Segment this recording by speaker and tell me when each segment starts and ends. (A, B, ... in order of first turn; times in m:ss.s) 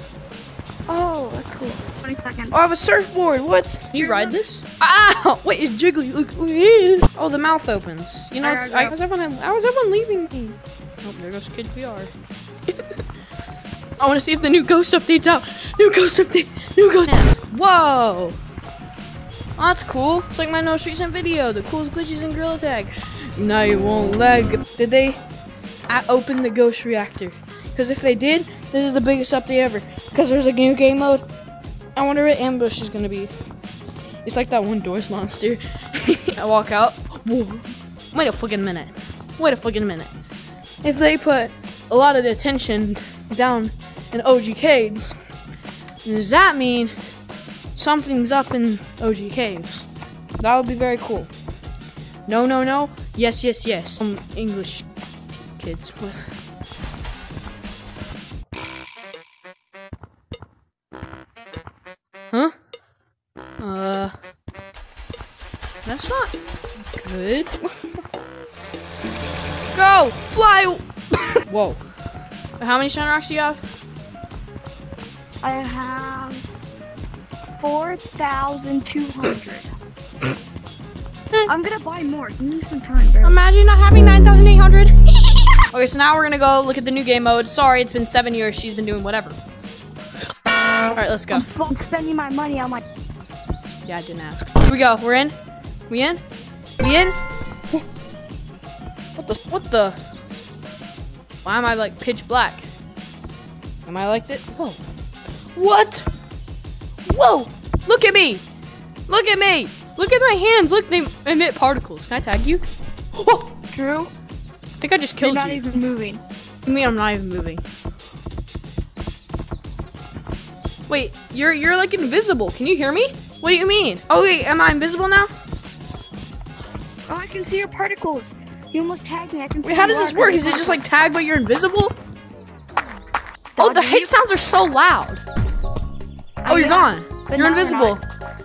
0:00.9-0:02.6 A
0:02.5-0:12.1 B
0:04.0-0:04.4 A
0:08.4-0:08.9 A
0:14.0-0:18.4 B
0:19.6-0:25.2 B
0:25.9-0:31.2 B
0:32.0-0:33.4 B
0:34.2-0:40.1 B
0:40.8-0:45.2 B
0:46.0-0:47.0 B
0:47.8-0:49.9 B
0:50.4-0:51.3 B
0:52.3-0:54.9 B
0:55.6-0:56.3 B
1:03.6-1:04.1 B
1:05.8-1:06.4 B
1:06.9-1:07.6 B
1:09.7-1:10.8 B
1:11.5-1:11.8 B
1:12.6-1:13.6 B
1:15.4-1:16.4 A
1:17.6-1:19.7 A
1:21.5-1:23.4 A
1:23.2-1:29.4 B
1:30.9-1:31.5 B
1:31.3-1:32.8 A
1:33.8-1:35.4 B
1:35.9-1:36.2 B
1:36.8-1:37.2 B
1:39.2-1:40.0 B
1:41.4-1:42.7 B
1:43.9-1:44.8 B
1:45.6-1:46.1 B
1:47.1-1:48.4 B
1:49.1-1:52.6 B
1:53.2-1:53.4 B
1:53.7-1:54.1 A
1:54.8-1:55.6 B
1:55.2-1:56.2 A
1:56.7-1:57.6 B
2:00.9-2:05.3 B
2:07.1-2:10.8 A
2:09.6-2:12.0 B
2:13.6-2:14.2 A
2:13.6-2:15.2 B
2:16.4-2:18.0 A
2:16.5-2:18.0 B